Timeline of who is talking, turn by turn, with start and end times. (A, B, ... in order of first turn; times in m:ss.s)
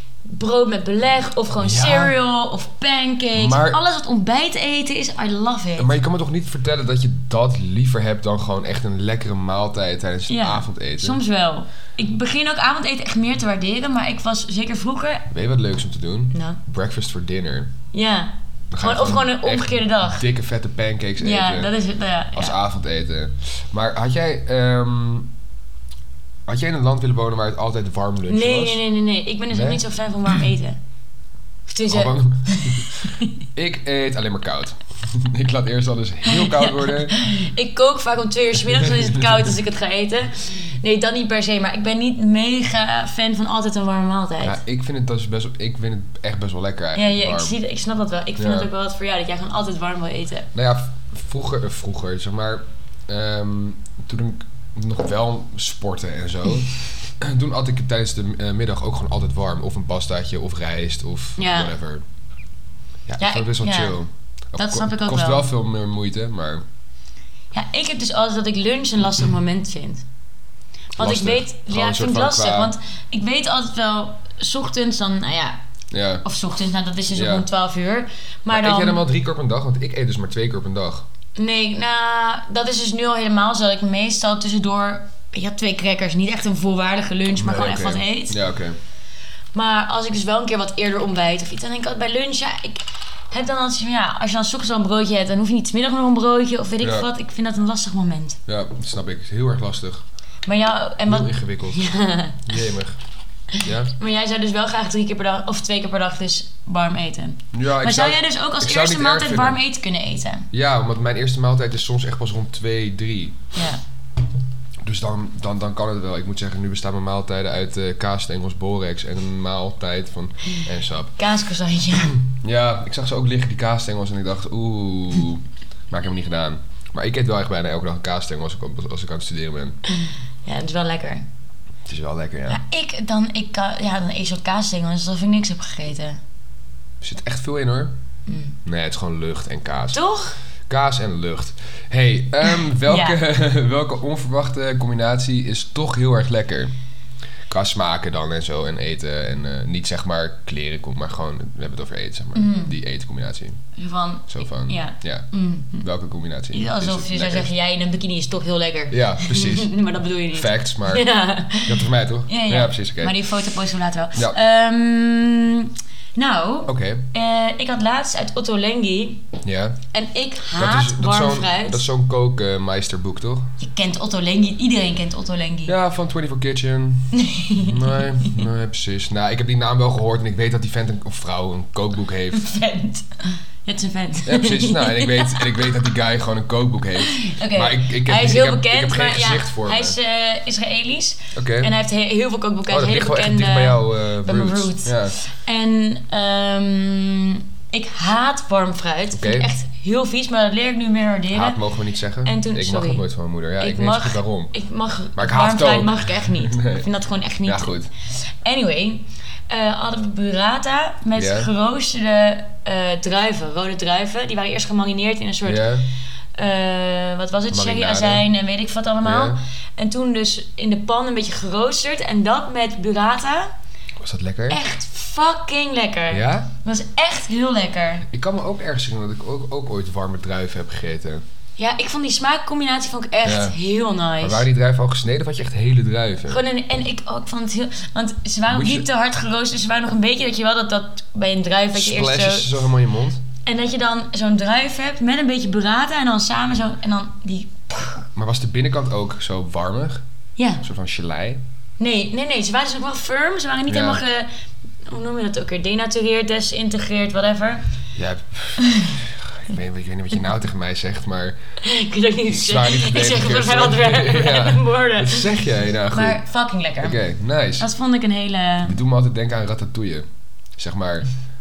0:00.2-0:05.9 A
0:01.6-0:02.1 B
0:03.3-0:03.8 B
0:05.8-0:11.2 B
0:10.3-0:15.3 A
0:15.3-0:17.7 B
0:16.3-0:16.6 A
0:17.9-0:20.2 A
0:18.7-0:21.7 B
0:21.2-0:22.6 A
0:22.3-0:25.3 B
0:26.5-0:28.8 B
0:28.3-0:30.8 A
0:29.5-0:29.8 B
0:31.7-0:33.3 A
0:31.9-0:37.2 B
0:36.2-0:44.6 A
0:38.7-0:39.3 B
0:44.4-0:47.5 B
0:46.9-0:50.5 A
0:48.4-0:48.7 B
0:50.5-1:02.0 B
1:01.4-1:01.7 A
1:03.1-1:06.6 B
1:03.2-1:04.0 A
1:04.6-1:05.5 A
1:07.5-1:10.0 A
1:11.0-1:15.6 A
1:11.0-1:12.7 B
1:15.9-1:16.2 B
1:16.2-1:19.0 A
1:17.1-1:17.4 B
1:18.5-1:21.0 B
1:21.4-1:28.4 A
1:27.3-1:28.8 B
1:29.5-1:38.4 A
1:36.8-1:37.1 B
1:38.5-1:40.0 B
1:40.4-1:42.4 A
1:41.1-1:41.8 B
1:42.4-1:43.0 B
1:43.5-1:50.5 A
1:43.6-1:43.9 B
1:47.5-1:49.6 B
1:50.5-1:53.4 B
1:53.5-1:53.8 A
1:54.8-2:01.2 B
2:01.2-2:02.1 A
2:02.0-2:09.8 B
2:09.9-2:11.2 A
2:11.8-2:12.6 B
2:12.5-2:16.2 A
2:17.0-2:17.9 B
2:18.3-2:18.6 A
2:18.6-2:20.0 B
2:19.9-2:20.4 A
2:20.7-2:26.7 B
2:22.6-2:23.2 A
2:27.5-2:33.6 B
2:32.3-2:32.7 A
2:33.8-2:35.8 A
2:34.3-2:35.3 B
2:35.8-2:37.5 B
2:36.5-2:49.2 A
2:38.9-2:39.7 B
2:40.3-2:41.0 B
2:41.6-2:43.2 B
2:46.7-2:47.0 B
2:49.4-2:49.8 B
2:49.9-2:51.8 A
2:50.6-2:53.5 B
2:53.6-2:55.7 A
2:55.6-3:02.5 B
2:57.1-2:58.4 A
3:02.3-3:05.8 A
3:04.2-3:10.0 B
3:07.0-3:21.6 A
3:11.3-3:11.7 B
3:12.7-3:15.2 B
3:19.1-3:19.5 B
3:21.3-3:24.5 B
3:22.2-3:23.0 A
3:23.6-3:35.7 A
3:25.2-3:26.9 B
3:27.4-3:27.9 B
3:31.2-3:31.5 B
3:35.4-3:35.8 B
3:36.3-3:43.5 A
3:37.5-3:38.2 B
3:39.0-3:39.4 B
3:44.0-3:44.6 B
3:44.5-3:48.1 A
3:46.1-3:46.5 B
3:48.1-3:51.2 B
3:51.6-3:54.4 A
3:53.2-3:53.5 B
3:54.2-3:56.4 B
3:56.3-4:02.5 A
3:58.5-3:58.8 B
4:01.7-4:03.2 B
4:03.4-4:08.1 A
4:08.1-4:10.0 B
4:10.4-4:10.6 A
4:10.6-4:11.4 B
4:11.8-4:14.3 A
4:13.7-4:14.0 B
4:14.8-4:17.6 A
4:18.0-4:21.4 B
4:18.6-4:18.9 A
4:21.6-4:25.3 A
4:22.3-4:26.2 B
4:25.9-4:27.0 A
4:26.8-4:27.7 B
4:27.6-4:28.8 A
4:28.6-4:30.0 B
4:30.6-4:31.1 B